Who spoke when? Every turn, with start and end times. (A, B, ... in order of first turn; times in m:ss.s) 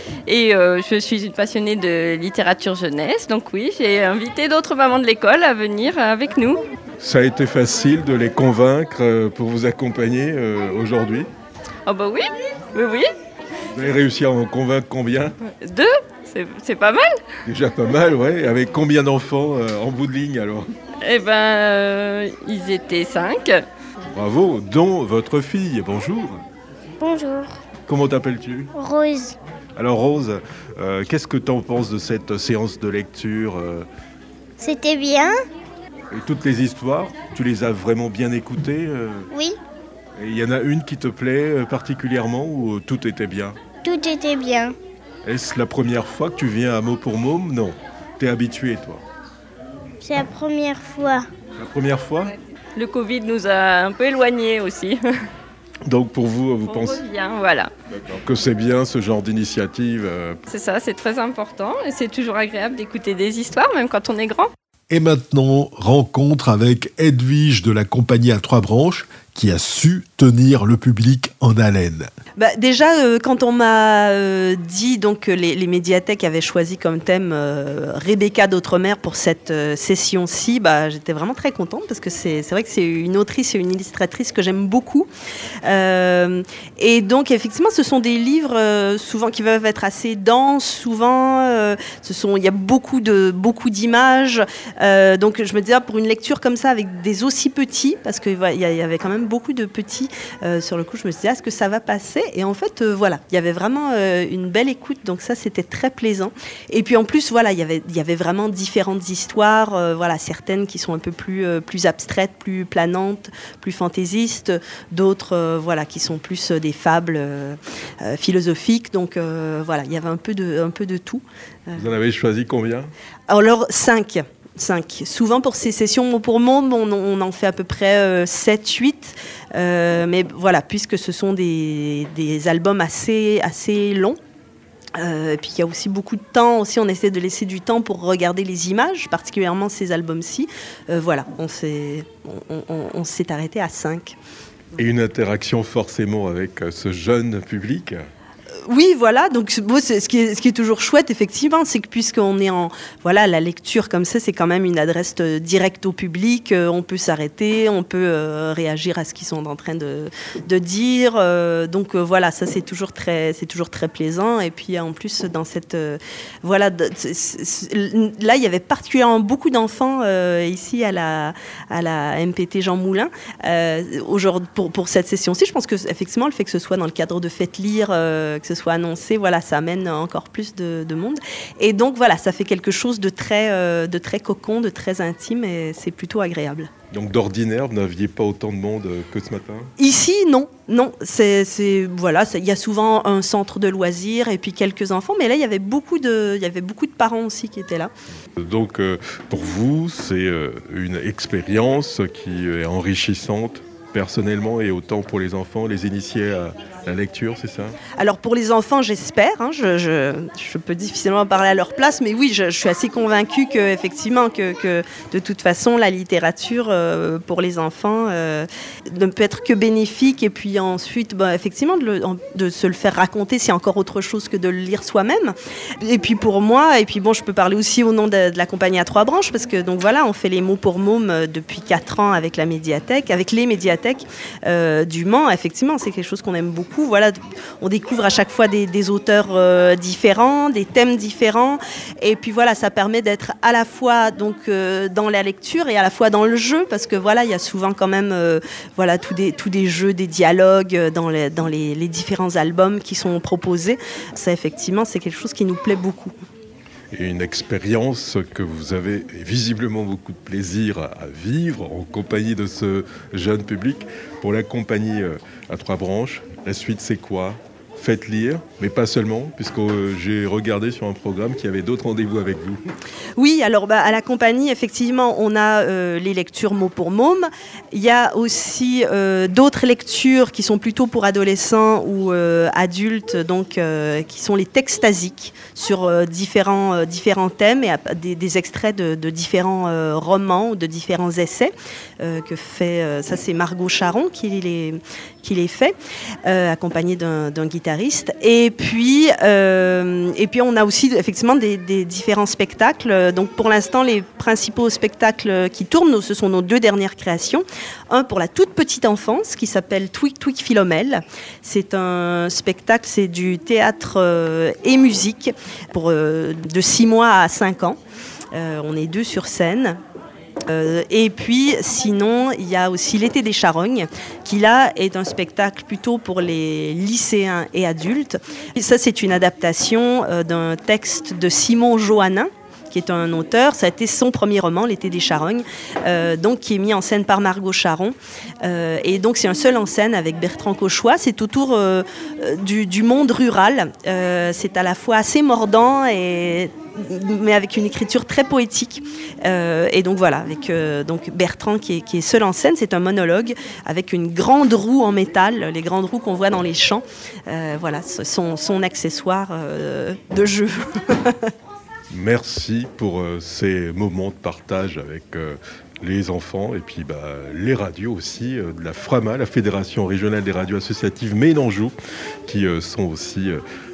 0:00.3-0:06.6 A
0:07.0-0:11.3 B
0:11.9-0:13.1 A
0:13.7-0:15.4 B
0:15.6-0:17.1 A
0:17.4-0:20.7 B
0:21.0-0:23.6 A
0:24.1-0:26.4 B
0:27.0-0:27.6 C
0:27.9-0:28.7 B
0:28.8-0:29.4 C
0:29.8-0:33.9 B
0:34.6-0:35.4 C
0:36.1-0:39.3 B
0:40.2-0:43.6 B
0:43.8-0:44.8 C
0:45.2-0:49.0 B
0:50.0-0:51.3 C
0:51.6-0:52.3 B
0:52.8-0:55.0 A
0:55.9-0:57.0 B
0:56.6-0:57.7 A
0:57.9-1:00.4 B
1:00.5-1:04.5 A
1:04.9-1:12.1 D
1:12.4-1:25.1 E
1:25.6-2:01.9 E
2:01.8-2:02.9 B
2:03.3-2:14.2 E
2:15.0-2:24.2 E
2:24.8-2:28.0 B
2:28.7-3:06.7 E
3:06.9-3:09.7 B
3:09.8-3:17.9 E
3:18.4-3:27.8 B
3:27.9-4:16.1 E
4:16.9-4:32.6 B
4:33.2-4:55.7 E
4:56.2-5:17.8 E
5:18.3-5:19.8 E
5:20.5-6:01.3 E
6:01.9-6:11.7 B
6:12.3-6:13.4 B